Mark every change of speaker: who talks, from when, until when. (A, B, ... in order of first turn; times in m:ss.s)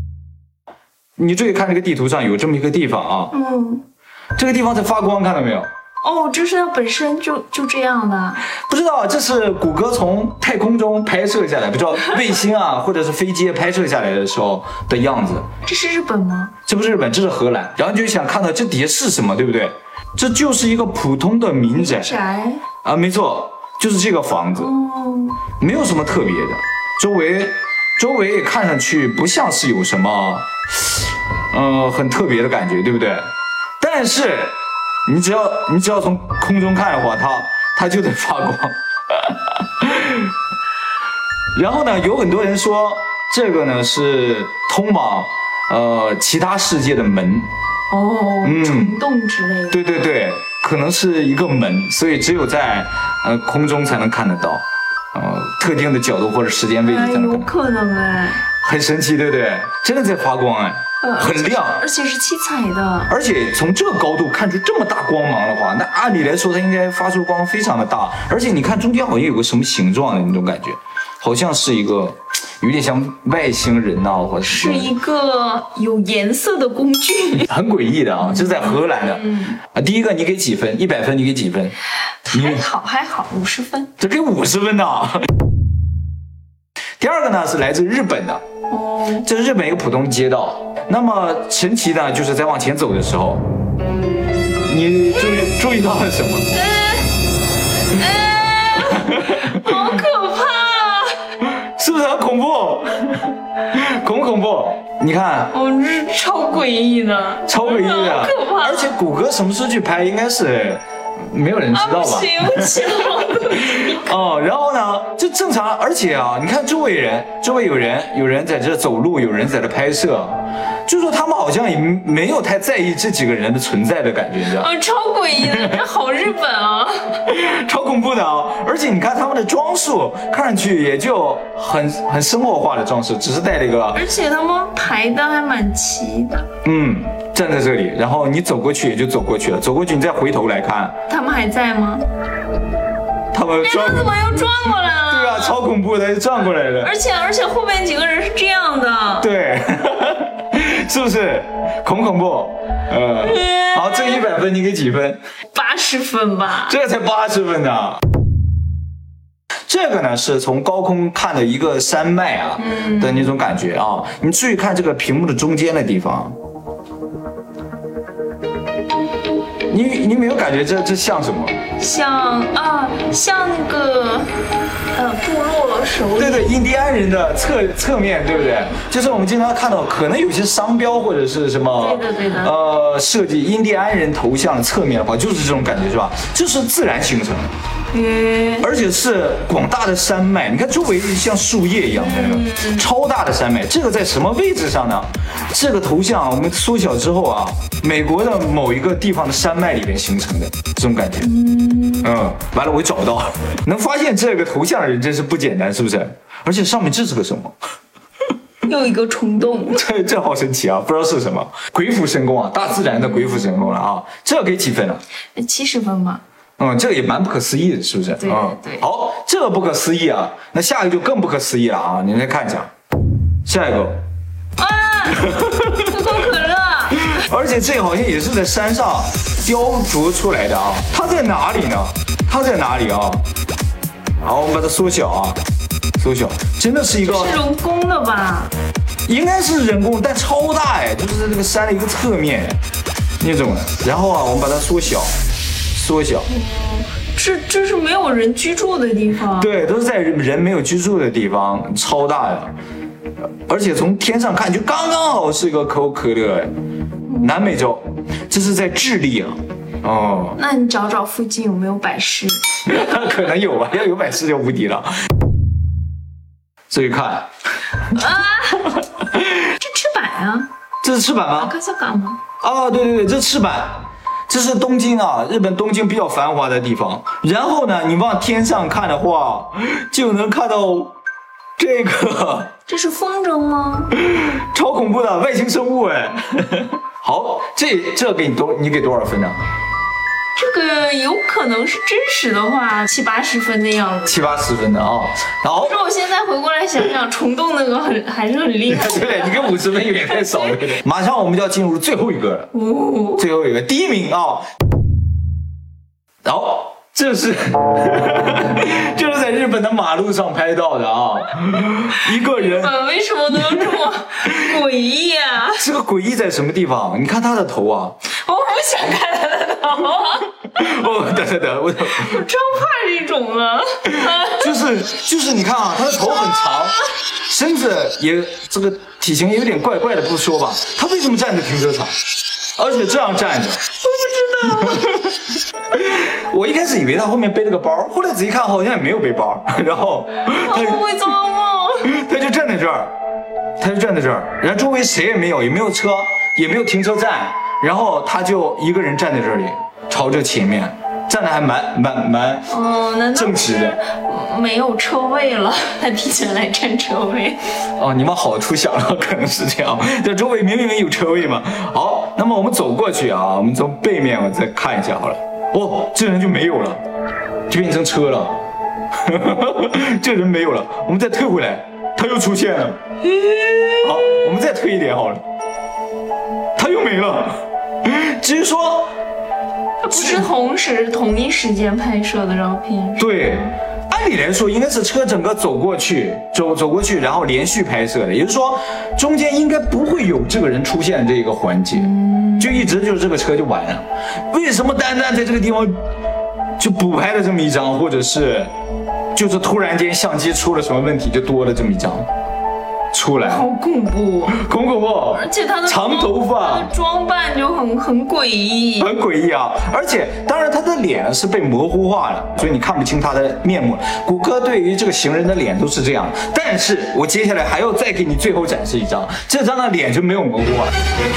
0:01.2-0:03.3 A
0:03.3-0:03.8 B
0:04.4-0:05.7 A
0:06.0-0:08.4 B
0:08.6-0:15.5 A
0:15.6-0:16.5 B
0:16.6-0:22.1 A
0:21.7-0:22.6 B
0:22.8-0:24.7 A
0:24.6-0:25.4 B
0:25.6-0:30.9 A
0:31.5-0:33.3 A
0:33.8-0:40.3 A
0:41.5-0:47.5 A
0:47.9-0:49.8 B
0:48.4-0:49.0 A
0:49.7-0:57.5 A
0:56.8-0:58.5 B
0:58.6-1:01.8 A
1:01.0-1:03.1 B
1:03.1-1:14.9 A
1:14.4-1:17.5 B
1:17.5-1:21.8 A
1:18.2-1:19.6 B
1:22.2-1:23.9 B
1:22.3-1:22.6 A
1:24.0-1:25.3 A
1:27.0-1:28.4 A
1:28.7-1:29.2 B
1:29.2-1:33.4 A
1:34.7-1:36.5 A
1:36.5-1:37.1 B
1:37.9-1:41.2 B
1:39.0-1:39.5 A
1:41.7-1:45.5 A
1:45.5-1:48.9 B
1:47.5-2:04.7 A
1:51.7-1:54.2 B
2:04.4-2:07.2 B
2:05.4-2:05.8 A
2:07.2-2:14.0 A
2:13.9-2:16.5 B
2:16.6-2:20.9 A
2:21.1-2:22.0 B
2:23.3-2:24.2 A
2:23.6-2:25.6 B
2:25.1-2:26.9 A
2:26.8-2:29.3 B
2:29.2-2:35.2 A
2:33.2-2:34.2 B
2:35.5-2:36.8 B
2:36.6-2:38.0 A
2:39.7-2:46.3 A
2:42.6-2:43.4 B
2:49.7-2:51.6 A
2:51.8-2:54.3 B
2:54.9-2:56.5 B
2:56.2-3:07.5 A
3:01.8-3:02.5 B
3:07.9-3:08.7 B
3:08.6-3:21.3 A
3:11.9-3:12.9 B
3:21.2-3:22.1 B
3:22.0-3:27.6 A
3:28.6-3:29.8 B
3:29.7-3:35.0 A
3:32.9-3:33.6 B
3:35.4-3:36.2 B
3:36.6-3:42.7 A
3:38.2-3:38.8 B
3:43.4-3:44.0 A
3:44.6-3:47.2 B
3:45.2-3:45.9 A
3:47.0-3:53.2 A
3:54.2-3:55.4 A
3:56.0-3:57.4 A
3:57.0-3:58.5 B
3:59.1-4:02.6 A
4:03.2-4:05.1 A
4:05.7-4:06.3 A
4:06.3-4:09.5 B
4:09.3-4:12.5 A
4:13.4-4:16.5 A
4:17.2-4:20.4 A
4:20.4-4:23.1 B
4:22.6-4:24.9 A
4:26.7-4:27.3 A
4:27.9-4:30.5 B
4:30.8-4:31.5 A
4:31.4-4:32.2 B
4:32.4-4:41.0 A
4:41.6-4:42.5 A
4:42.7-4:44.0 B
4:44.0-4:49.4 A
4:50.4-4:54.3 B
4:54.1-4:55.8 A
4:55.6-5:00.6 B
4:58.7-5:02.5 A
5:02.5-5:03.3 B
5:03.2-5:04.5 A
5:06.2-5:12.7 A
5:12.0-5:15.6 B
5:13.3-5:13.6 A
5:15.6-5:18.0 A
5:18.1-5:20.5 B
5:20.5-5:22.2 A
5:21.9-5:24.7 B
5:24.0-5:32.0 A
5:32.6-5:33.6 A
5:33.8-5:35.1 B
5:35.7-5:40.9 A
5:40.2-5:41.9 B
5:41.8-5:42.9 A
5:43.6-5:52.5 A
5:52.5-5:57.4 B
5:53.1-5:53.8 A
5:57.8-6:06.8 A
6:07.5-6:08.4 A
6:09.0-6:12.8 A
6:13.1-6:13.9 B
6:13.8-6:15.2 A
6:16.6-6:18.9 A
6:19.8-6:23.5 B
6:19.9-6:20.2 A
6:23.0-6:35.8 A
6:31.7-6:32.8 B
6:36.6-6:38.5 A
6:39.1-6:42.1 A
6:42.9-6:43.4 A
6:43.2-6:44.4 B
6:44.3-6:46.7 A
6:45.1-6:48.9 B
6:48.8-7:00.7 A